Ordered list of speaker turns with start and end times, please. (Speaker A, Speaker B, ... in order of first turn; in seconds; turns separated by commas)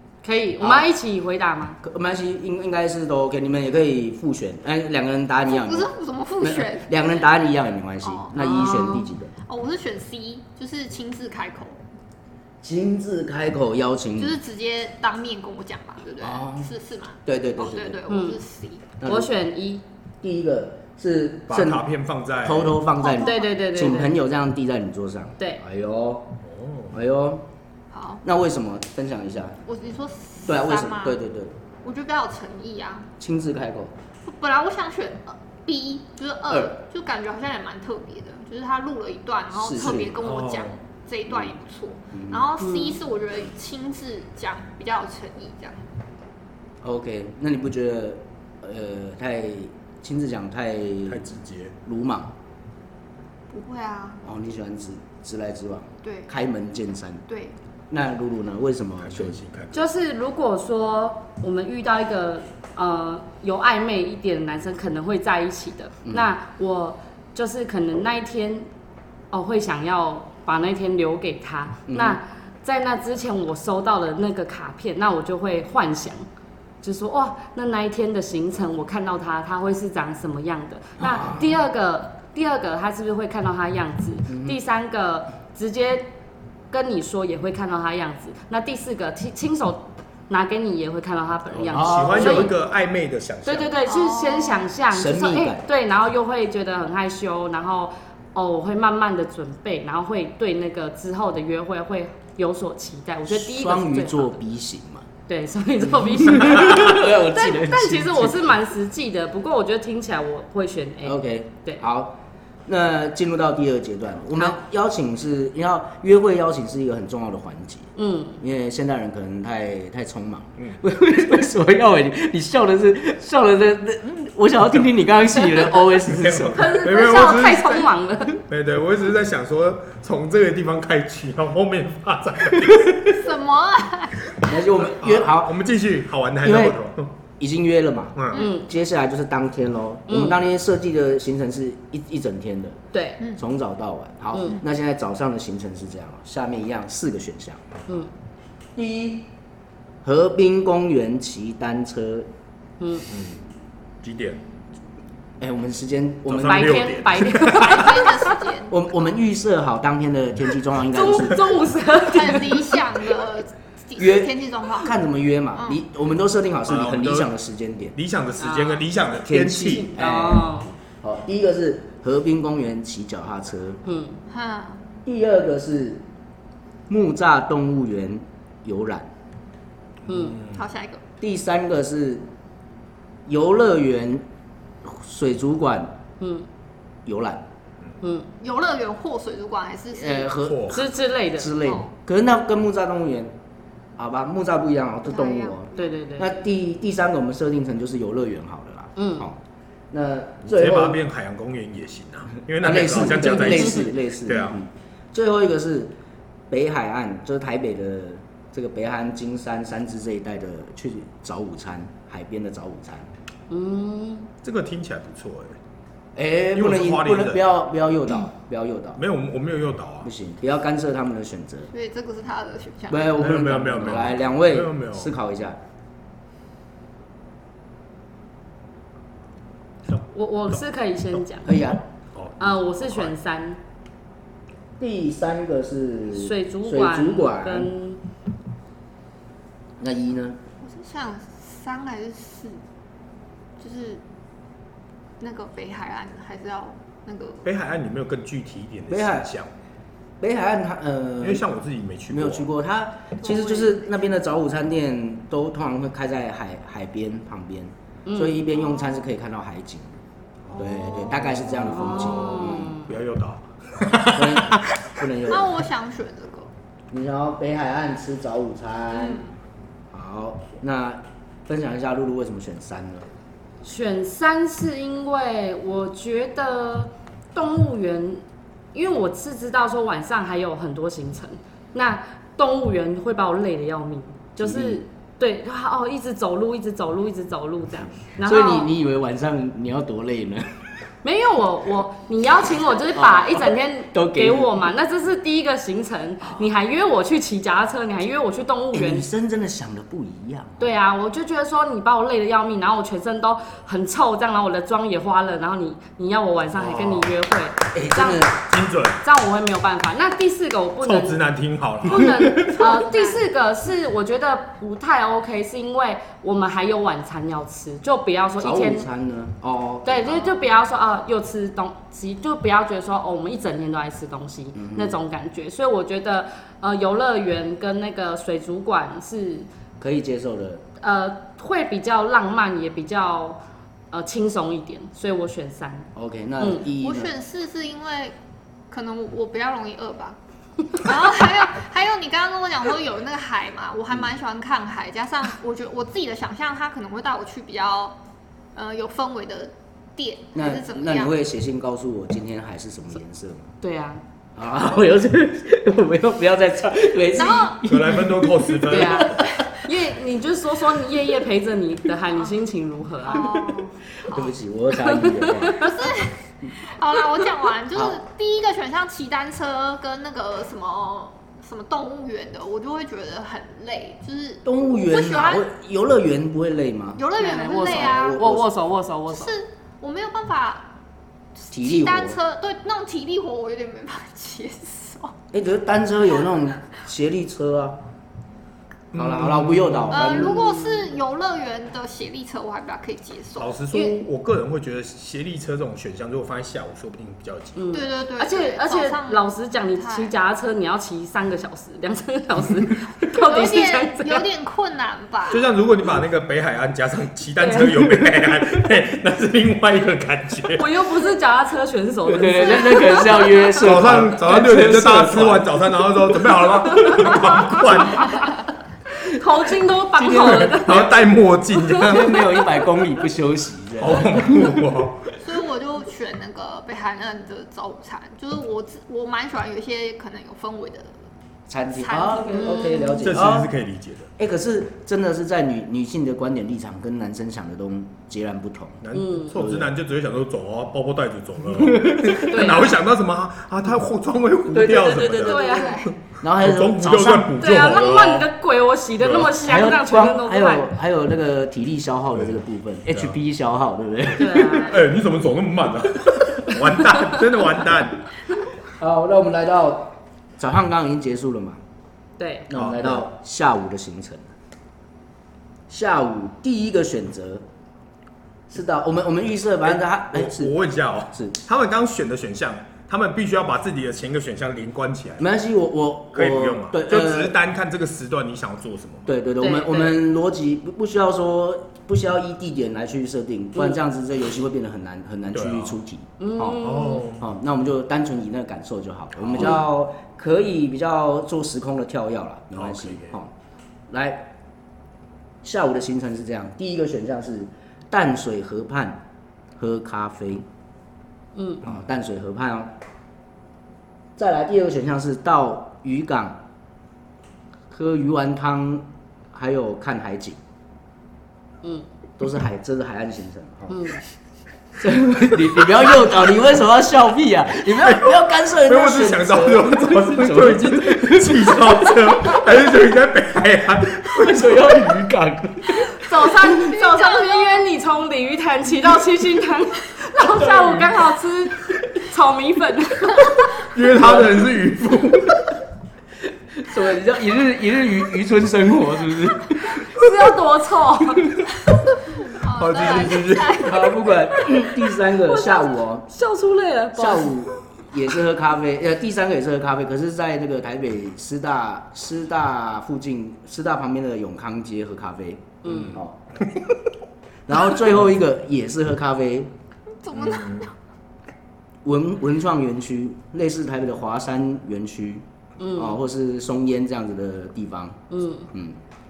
Speaker A: 0.2-1.8, Speaker B: 0.6-0.9, Speaker B: 1.8-9.3, Speaker C: 5.5-7.0, Speaker C: 8.0-8.3, Speaker A: 8.4-9.1, Speaker C: 9.5-11.8, Speaker B: 12.6-14.4, Speaker C: 14.2-18.8, Speaker B: 16.2-16.7, Speaker B: 17.2-18.0, Speaker A: 18.1-18.4, Speaker B: 19.0-19.3, Speaker A: 19.1-19.8, Speaker B: 20.2-21.9, Speaker D: 21.5-22.8, Speaker B: 22.4-26.4, Speaker C: 23.0-23.5, Speaker A: 23.1-24.1, Speaker D: 26.5-26.9, Speaker B: 26.9-27.4, Speaker C: 27.9-28.2, Speaker B: 28.2-29.6, Speaker C: 29.7-31.2, Speaker B: 30.5-31.6, Speaker C: 31.8-33.1, Speaker B: 33.2-33.9, Speaker C: 34.2-45.8, Speaker B: 36.5-36.8, Speaker B: 39.5-40.1, Speaker D: 40.0-40.8, Speaker B: 42.1-42.5, Speaker A: 42.6-43.0, Speaker B: 46.8-51.3, Speaker D: 51.1-51.7, Speaker B: 51.8-52.3, Speaker C: 53.5-54.2, Speaker B: 54.2-57.2, Speaker C: 56.0-56.3, Speaker C: 57.3-57.6, Speaker B: 57.9-59.4, Speaker D: 59.0-59.9, Speaker A: 59.7-68.7, Speaker A: 69.3-76.3, Speaker B: 71.9-72.2, Speaker A: 76.8-86.1, Speaker B: 81.0-81.6, Speaker B: 84.3-84.6, Speaker A: 86.7-92.5, Speaker D: 91.6-93.7, Speaker B: 91.7-92.5, Speaker A: 93.5-104.4, Speaker C: 93.9-94.7, Speaker B: 94.9-95.7, Speaker B: 103.3-105.1, Speaker A: 105.3-111.8, Speaker B: 105.8-108.6, Speaker B: 111.0-126.7, Speaker A: 118.0-118.4, Speaker D: 126.0-133.2, Speaker A: 126.5-128.4, Speaker C: 133.1-134.2, Speaker D: 134.4-137.1, Speaker B: 134.4-135.6, Speaker B: 136.4-136.8, Speaker B: 137.4-142.8, Speaker D: 138.2-138.4, Speaker A: 138.4-138.7, Speaker A: 140.1-140.4, Speaker A: 142.9-143.2, Speaker B: 143.3-147.7, Speaker A: 144.3-144.6, Speaker B: 148.8-149.3, Speaker B: 150.0-152.3, Speaker A: 152.8-153.1, Speaker D: 153.1-153.4, Speaker D: 154.0-154.4, Speaker B: 155.4-156.9, Speaker D: 156.3-157.9, Speaker A: 156.5-158.3, Speaker C: 157.5-158.7, Speaker B: 158.7-161.5, Speaker A: 160.9-162.7, Speaker C: 162.0-164.9, Speaker B: 164.0-167.9, Speaker C: 165.6-165.8, Speaker D: 166.7-167.3, Speaker D: 167.9-169.9, Speaker A: 168.4-168.8, Speaker B: 169.2-173.8, Speaker A: 169.7-170.7, Speaker A: 173.8-174.2, Speaker C: 174.3-174.8, Speaker B: 175.1-176.0, Speaker B: 176.9-179.1, Speaker A: 180.1-180.4, Speaker D: 180.1-180.6, Speaker C: 180.5-181.0, Speaker B: 181.2-182.2, Speaker B: 183.3-184.2, Speaker B: 184.8-186.0, Speaker A: 186.2-186.5, Speaker B: 187.1-187.5, Speaker A: 188.0-188.3, Speaker C: 188.4-190.4, Speaker B: 190.0-193.3, Speaker D: 190.4-190.8, Speaker A: 190.7-191.6, Speaker C: 191.6-191.9, Speaker B: 194.0-199.4, Speaker C: 195.1-195.9, Speaker A: 195.7-196.3, Speaker A: 199.0-199.3, Speaker B: 199.9-201.0, Speaker D: 200.5-204.6, Speaker B: 202.6-205.9, Speaker B: 206.5-213.1, Speaker A: 213.5-214.3, Speaker D: 214.4-215.6, Speaker B: 216.2-219.0, Speaker D: 216.5-217.4, Speaker D: 219.0-220.1, Speaker B: 220.0-221.7, Speaker C: 221.7-223.1, Speaker B: 222.9-225.6, Speaker D: 223.1-225.1, Speaker A: 230.1-231.6, Speaker B: 231.4-231.8, Speaker D: 232.1-233.1, Speaker A: 232.4-233.6, Speaker B: 234.8-237.7, Speaker A: 236.1-238.0, Speaker B: 239.8-240.4, Speaker C: 240.6-242.6, Speaker C: 243.6-244.0, Speaker C: 245.2-247.4, Speaker D: 247.4-249.5, Speaker B: 248.9-249.3, Speaker B: 250.2-251.4, Speaker D: 251.2-252.5, Speaker B: 252.1-260.0, Speaker C: 253.2-253.8, Speaker A: 258.1-258.4, Speaker D: 260.5-264.9, Speaker B: 260.6-262.8, Speaker C: 260.6-261.5, Speaker A: 261.6-262.9, Speaker B: 264.1-265.7, Speaker C: 265.3-266.5, Speaker B: 266.9-269.3, Speaker C: 268.9-269.3, Speaker B: 269.9-273.1, Speaker A: 273.6-278.2, Speaker A: 278.7-288.7, Speaker B: 284.4-284.8, Speaker B: 288.2-290.6, Speaker A: 291.0-299.1, Speaker B: 292.9-294.7, Speaker B: 298.7-300.7, Speaker A: 300.6-308.3, Speaker D: 306.6-307.1, Speaker B: 307.7-308.4, Speaker D: 308.4-309.0, Speaker A: 309.0-311.2, Speaker D: 310.8-312.5, Speaker A: 311.9-318.9, Speaker C: 312.4-313.2, Speaker B: 318.4-320.4, Speaker A: 319.8-329.5, Speaker B: 324.6-325.0, Speaker B: 329.8-330.6, Speaker A: 330.8-333.4, Speaker A: 333.9-335.9, Speaker B: 335.9-337.1, Speaker C: 336.8-338.1, Speaker C: 338.7-340.2, Speaker C: 340.7-348.0, Speaker C: 348.6-351.1, Speaker B: 350.4-353.5, Speaker A: 353.6-354.0, Speaker B: 354.4-359.4, Speaker C: 357.1-357.6, Speaker D: 357.7-359.2, Speaker A: 358.7-363.4, Speaker C: 363.1-364.4, Speaker B: 363.1-365.9, Speaker A: 364.8-365.7, Speaker C: 365.5-375.5, Speaker B: 367.7-368.0, Speaker B: 374.4-378.5, Speaker C: 377.0-378.2, Speaker A: 377.2-379.3, Speaker C: 379.1-380.7, Speaker C: 381.4-385.1, Speaker B: 381.5-382.2, Speaker B: 385.3-387.8, Speaker D: 388.9-390.1, Speaker B: 388.9-390.6, Speaker C: 389.9-394.0, Speaker D: 393.4-397.7, Speaker A: 397.6-404.2, Speaker C: 397.7-400.1, Speaker C: 403.1-405.5, Speaker D: 405.3-410.7, Speaker A: 407.4-407.8, Speaker A: 410.6-413.7, Speaker B: 412.1-415.6, Speaker D: 413.6-418.4, Speaker B: 416.8-417.1, Speaker A: 416.9-417.3, Speaker A: 419.0-421.0, Speaker B: 419.9-420.7, Speaker D: 420.2-422.3, Speaker A: 421.5-422.4, Speaker B: 421.8-424.6, Speaker D: 423.8-425.1, Speaker C: 425.2-430.9, Speaker B: 431.5-433.5, Speaker C: 431.7-432.8, Speaker A: 432.3-433.1, Speaker D: 433.0-434.1, Speaker B: 434.2-439.7, Speaker D: 438.8-445.4, Speaker A: 438.9-439.4, Speaker B: 441.5-442.6, Speaker A: 442.2-442.7, Speaker B: 444.5-445.4, Speaker A: 444.9-445.9, Speaker C: 445.1-445.9, Speaker B: 446.2-447.4, Speaker D: 446.3-448.3, Speaker A: 447.4-450.7, Speaker D: 449.0-449.4, Speaker B: 449.4-454.8, Speaker D: 452.9-453.2, Speaker A: 454.2-454.8, Speaker D: 454.5-458.0, Speaker B: 458.8-461.6, Speaker A: 462.2-462.5, Speaker B: 462.5-464.3, Speaker D: 462.5-463.0, Speaker B: 465.7-467.4, Speaker B: 468.5-470.6, Speaker D: 469.7-475.2, Speaker B: 475.2-477.4, Speaker D: 476.1-479.1, Speaker B: 479.1-493.3, Speaker A: 479.4-480.0, Speaker D: 485.3-485.8, Speaker A: 486.2-487.0, Speaker D: 486.5-487.3, Speaker D: 489.2-489.6, Speaker D: 492.6-493.1, Speaker B: 493.9-494.3, Speaker B: 495.4-499.0, Speaker B: 499.6-500.4, Speaker A: 501.4-501.6, Speaker B: 501.6-502.7, Speaker B: 504.2-506.4, Speaker B: 507.7-510.4, Speaker B: 512.2-514.0, Speaker A: 513.7-514.0, Speaker B: 514.8-522.4, Speaker D: 517.8-525.0, Speaker B: 524.1-526.1, Speaker A: 526.0-533.5, Speaker C: 526.4-527.6, Speaker B: 530.3-530.9, Speaker D: 533.6-535.5, Speaker B: 534.0-534.5, Speaker B: 536.5-539.9, Speaker A: 539.9-541.3, Speaker C: 542.1-544.6, Speaker D: 542.6-543.7, Speaker B: 543.6-546.1, Speaker A: 545.2-547.4, Speaker B: 546.9-556.2, Speaker A: 555.6-556.0, Speaker B: 557.5-559.5, Speaker C: 560.0-560.7, Speaker D: 560.1-560.7, Speaker B: 561.8-568.0, Speaker A: 565.6-566.0, Speaker A: 568.1-568.5, Speaker B: 568.5-568.8